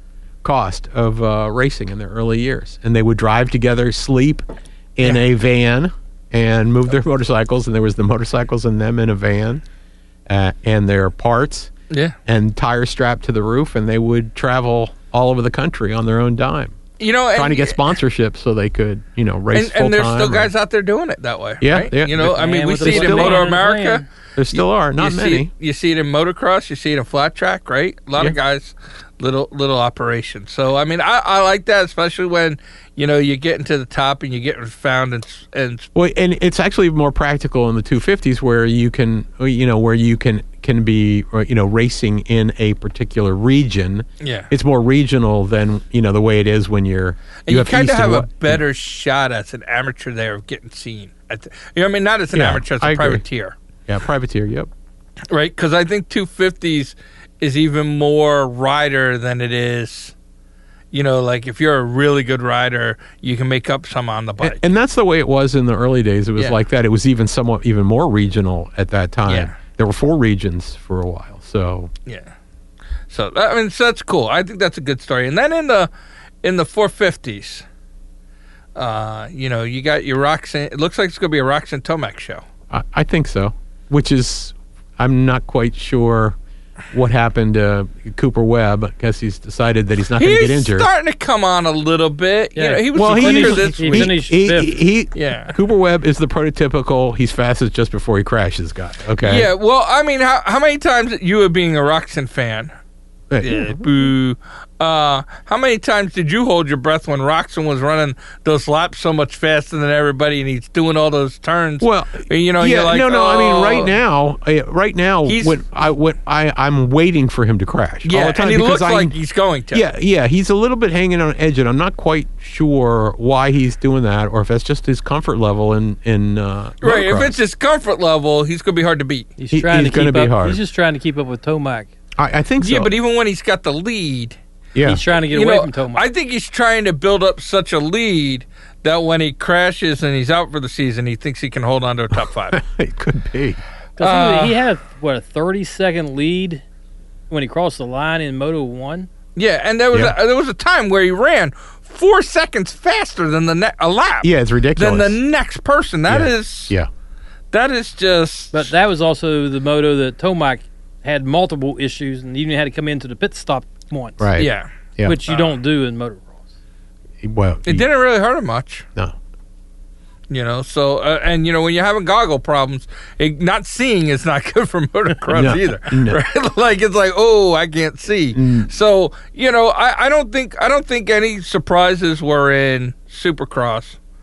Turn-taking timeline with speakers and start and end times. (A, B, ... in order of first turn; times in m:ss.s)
0:00.4-0:04.4 A
0:05.0-0:09.6 A
0:10.3-0:11.7 A
0:11.9-0:12.2 B
0:12.3-0:16.8 A
0:17.0-0:17.8 B
0:17.3-0:20.5 A
0:19.5-0:35.9 B
0:21.6-0:23.5 A
0:22.2-0:24.1 C
0:24.4-0:25.5 A
0:36.0-0:48.6 A
0:44.2-0:44.5 B
0:47.5-0:53.6 B
0:52.3-0:53.2 A
0:53.9-0:54.7 A
0:55.3-1:00.1 B
1:00.9-1:04.6 B
1:04.4-1:11.9 A
1:09.3-1:09.6 B
1:12.1-1:12.3 B
1:13.1-1:15.9 B
1:16.4-1:17.6 B
1:18.8-1:22.4 B
1:22.7-1:26.4 A
1:26.9-1:30.9 A
1:30.2-1:34.2 B
1:32.6-1:34.7 C
1:32.9-1:39.5 A
1:35.2-1:35.6 B
1:39.2-1:42.7 B
1:43.3-1:44.1 A
1:43.4-1:54.0 B
1:51.8-1:59.1 A
1:55.3-1:55.6 B
1:58.0-1:59.8 B
1:59.7-2:07.4 A
2:06.8-2:09.3 B
2:09.4-2:11.9 C
2:09.5-2:10.6 A
2:12.2-2:12.9 A
2:12.6-2:14.4 B
2:14.8-2:15.0 A
2:14.8-2:16.1 C
2:15.3-2:22.6 B
2:22.5-2:23.6 A
2:24.0-2:26.6 C
2:24.0-2:24.6 B
2:27.3-2:29.1 C
2:29.4-2:36.7 B
2:34.2-2:35.2 A
2:36.1-2:36.9 A
2:37.5-2:38.7 B
2:38.5-2:44.3 C
2:44.2-2:45.2 A
2:44.4-2:44.7 B
2:45.0-2:46.4 C
2:47.2-2:47.9 A
2:47.7-2:48.8 B
2:50.3-3:04.0 B
2:55.3-2:56.2 A
2:58.3-2:58.7 A